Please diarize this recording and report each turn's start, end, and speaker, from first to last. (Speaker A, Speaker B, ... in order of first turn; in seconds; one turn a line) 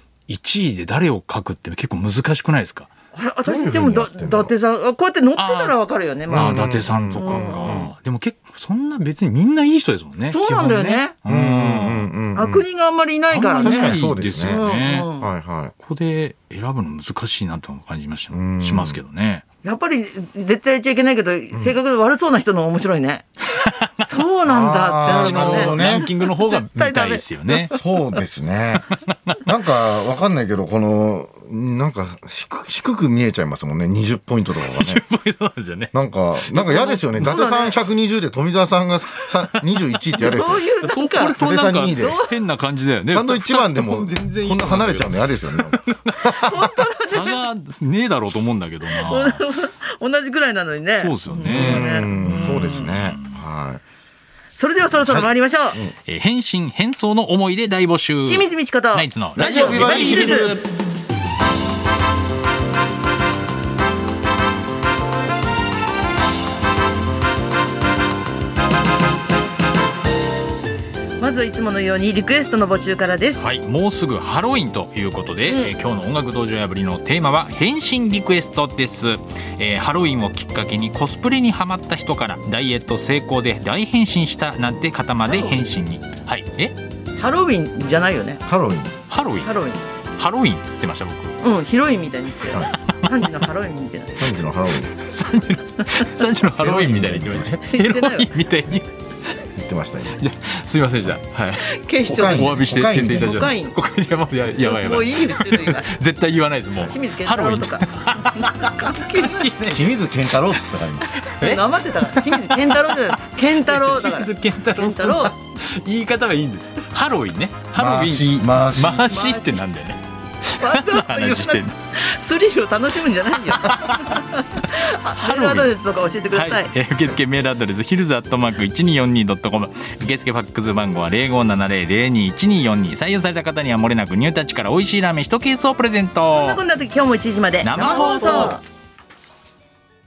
Speaker A: 0.3-2.9
Speaker B: 3.1-7.9
Speaker C: 3.4-4.5
Speaker A: 5.4-5.8
Speaker C: 6.3-7.9
Speaker A: 6.3-12.1
Speaker B: 10.3-11.2
Speaker C: 11.2-12.7
Speaker B: 12.3-15.3
Speaker A: 13.3-15.1
Speaker C: 13.6-15.7
Speaker A: 15.8-19.4
Speaker C: 18.3-19.0
Speaker B: 19.6-23.2
Speaker A: 23.6-23.9
Speaker B: 24.1-27.8
Speaker C: 24.4-26.1
Speaker A: 25.0-27.7
Speaker C: 27.7-28.8
Speaker A: 28.8-29.4
Speaker C: 29.4-35.0
Speaker A: 34.5-37.4
Speaker C: 35.9-40.7
Speaker B: 36.9-37.8
Speaker A: 39.1-49.5
Speaker B: 40.2-41.4
Speaker C: 41.4-42.2
Speaker B: 41.9-42.3
Speaker C: 43.1-46.6
Speaker B: 46.4-47.4
Speaker B: 48.9-52.9
Speaker A: 51.0-53.4
Speaker C: 51.4-53.8
Speaker B: 54.5-55.8
Speaker C: 54.9-55.9
Speaker A: 56.0-60.6
Speaker B: 58.2-60.6
Speaker C: 59.3-60.6
Speaker B: 71.2-73.4
Speaker A: 73.4-86.8
Speaker B: 75.5-75.7
Speaker B: 85.3-85.6
Speaker B: 87.2-88.4
Speaker C: 88.5-88.9
Speaker A: 89.1-89.5
Speaker B: 89.4-89.8
Speaker A: 90.2-91.4
Speaker B: 91.4-94.3
Speaker C: 94.2-94.9
Speaker A: 95.0-98.9
Speaker C: 96.6-97.5
Speaker B: 97.6-98.3
Speaker C: 99.5-100.2
Speaker A: 100.1-121.7
Speaker B: 101.6-103.8
Speaker C: 102.0-103.5
Speaker B: 104.6-105.9
Speaker B: 106.8-109.5
Speaker C: 109.7-111.2
Speaker B: 111.4-115.3
Speaker C: 117.8-119.1
Speaker B: 119.0-119.6
Speaker B: 120.6-126.7
Speaker A: 123.5-125.8
Speaker A: 126.3-136.6
Speaker B: 136.3-138.6
Speaker A: 137.6-138.6